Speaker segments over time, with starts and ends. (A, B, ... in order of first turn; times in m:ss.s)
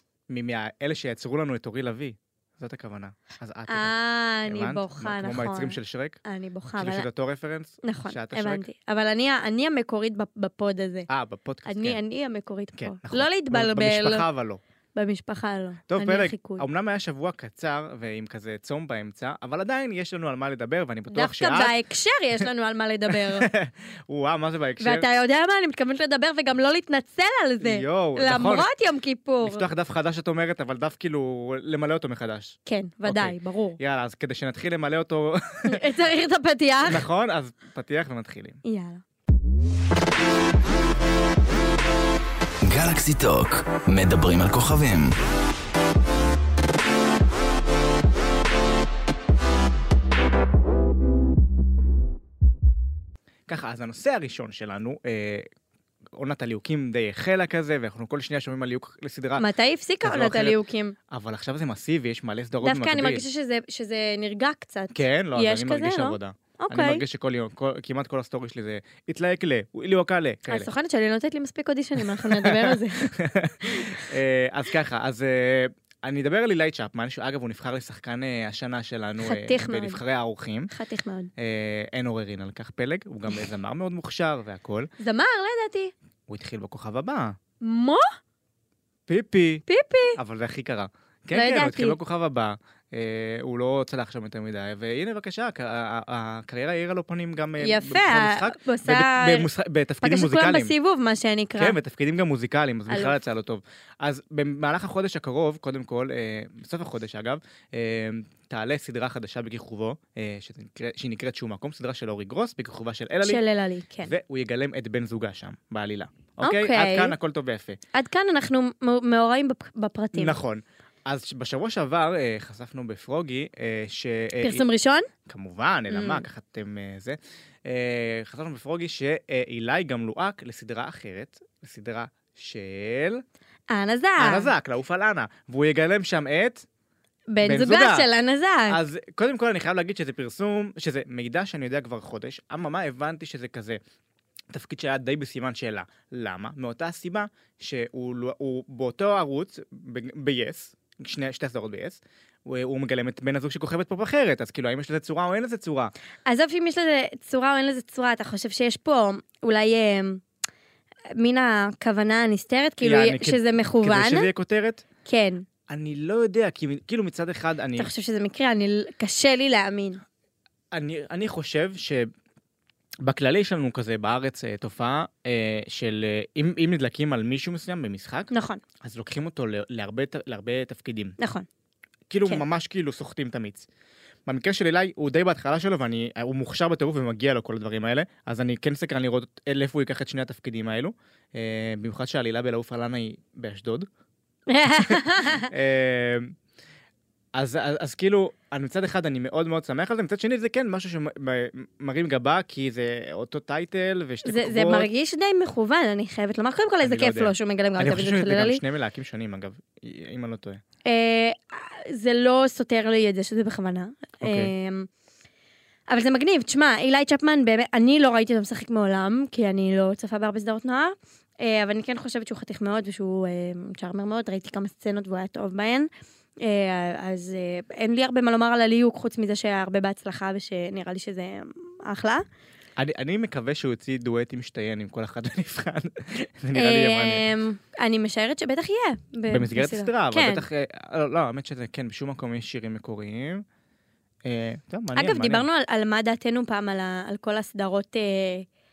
0:00.3-0:03.9 A
0:03.7-0:07.1 B
0:04.4-0:06.2 A
0:06.8-0:08.6 A
0:07.8-0:11.1 B
0:11.1-0:12.0 A
0:11.6-0:14.2 B
0:12.8-0:14.6 A
0:14.9-0:16.6 B
0:15.9-0:21.8 A
0:21.1-0:23.5 B
0:23.1-0:25.0 A
0:24.8-0:29.6 B
0:27.6-0:28.7 A
0:29.4-0:35.8 A
0:32.6-0:33.8 B
0:35.6-0:37.0 B
0:36.8-0:38.6 A
0:38.6-0:39.0 B
0:42.6-0:45.2 C
0:53.5-0:55.5 A
0:56.1-0:59.5 A
0:59.4-1:01.0 B
1:00.0-1:00.6 A
1:01.1-1:03.2 A
1:02.6-1:07.0 B
1:04.9-1:10.7 A
1:10.5-1:14.1 B
1:12.0-1:20.7 A
1:19.2-1:20.0 B
1:20.7-1:21.3 B
1:21.4-1:24.9 A
1:25.0-1:25.9 B
1:26.3-1:27.4 A
1:27.6-1:28.1 B
1:29.1-1:29.6 A
1:29.7-1:30.2 B
1:30.2-1:40.7 A
1:31.3-1:32.0 B
1:37.6-1:39.5 B
1:40.0-1:41.8 B
1:41.6-1:53.4 A
1:42.9-1:43.1 B
1:53.2-1:54.1 B
1:54.0-1:57.8 A
1:56.4-1:57.1 B
1:57.9-2:00.3 B
2:00.1-2:04.6 A
2:04.4-2:05.1 B
2:05.2-2:13.2 A
2:05.9-2:06.2 B
2:13.7-2:14.5 B
2:14.2-2:16.6 A
2:17.3-2:18.8 B
2:17.4-2:18.1 A
2:18.7-2:23.8 A
2:24.5-2:35.9 A
2:36.2-2:40.2 B
2:41.2-2:44.3 B
2:42.8-2:44.8 A
2:45.0-2:45.4 B
2:45.7-2:47.9 A
2:47.8-2:50.0 B
2:50.7-2:52.1 A
2:53.0-2:58.3 A
2:58.3-2:58.6 B
2:58.8-3:01.1 A
3:01.2-3:01.4 B
3:02.1-3:03.7 A
3:04.3-3:13.9 A
3:14.5-3:15.5 B
3:14.9-3:16.3 A
3:17.3-3:24.9 A
3:24.2-3:28.6 B
3:26.8-3:30.6 A
3:30.8-3:34.9 B
3:34.2-3:34.5 A
3:35.9-3:45.9 B
3:46.4-3:52.2 B
3:52.8-3:57.2 A
3:56.5-4:00.4 B
3:59.3-4:03.4 A
4:04.2-4:05.4 A
4:04.9-4:08.5 B